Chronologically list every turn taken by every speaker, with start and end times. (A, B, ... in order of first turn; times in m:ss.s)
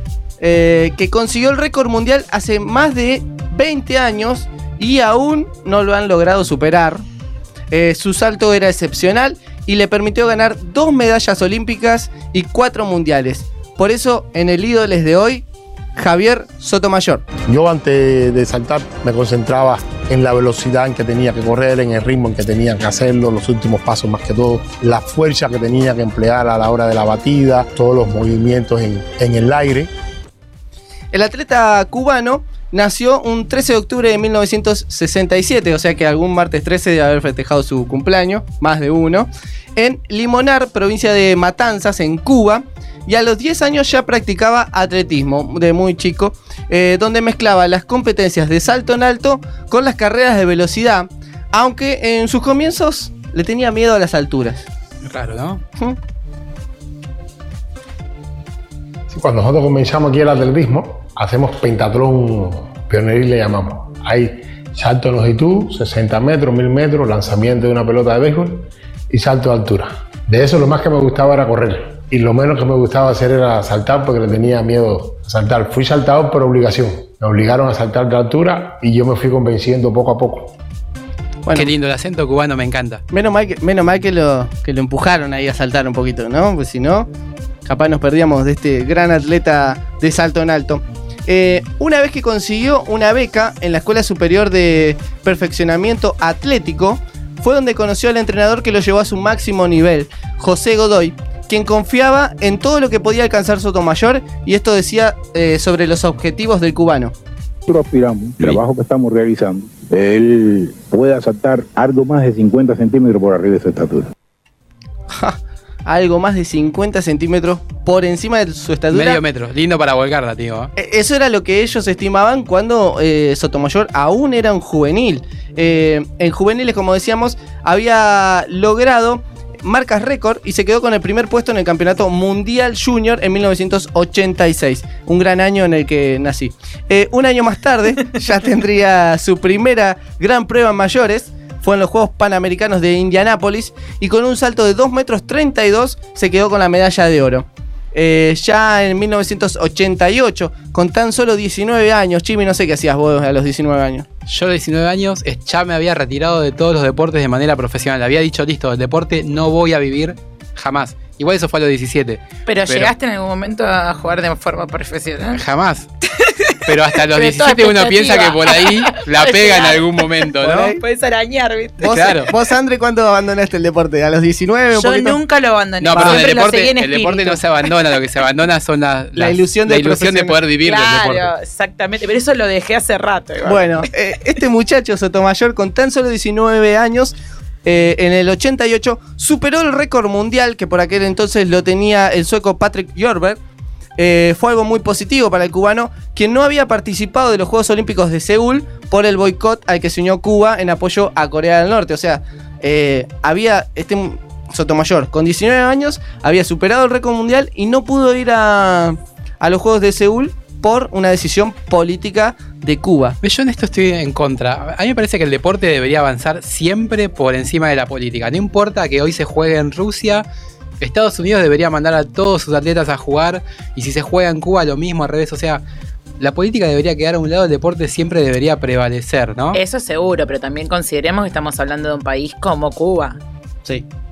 0:00.4-0:07.0 A
0:07.7-0:17.2 A
0:17.5-0:29.9 B
0:31.1-0:54.7 A
0:55.0-0:55.6 C
0:59.1-1:20.5 B
1:21.4-1:21.7 A
1:21.5-1:23.0 C
1:23.1-1:27.1 A
1:27.6-1:47.1 A
1:47.7-1:54.1 D
1:55.1-1:59.2 A
1:58.9-2:00.7 C
2:00.8-2:34.0 A
2:34.3-2:42.9 C
2:42.4-2:45.4 E
2:45.4-2:45.9 C
2:46.0-2:52.2 E
2:46.6-2:50.7 C
2:50.4-2:50.8 A
2:51.8-2:55.2 A
2:51.9-2:52.3 C
2:54.7-2:58.0 E
2:55.8-3:01.3 C
2:55.9-2:56.3 A
2:59.2-3:00.4 A
3:00.6-3:03.9 E
3:03.4-3:13.4 A
3:14.0-3:33.2 A
3:33.2-3:40.2 C
3:40.8-3:45.6 C
3:46.2-3:49.6 C
3:49.5-3:53.2 E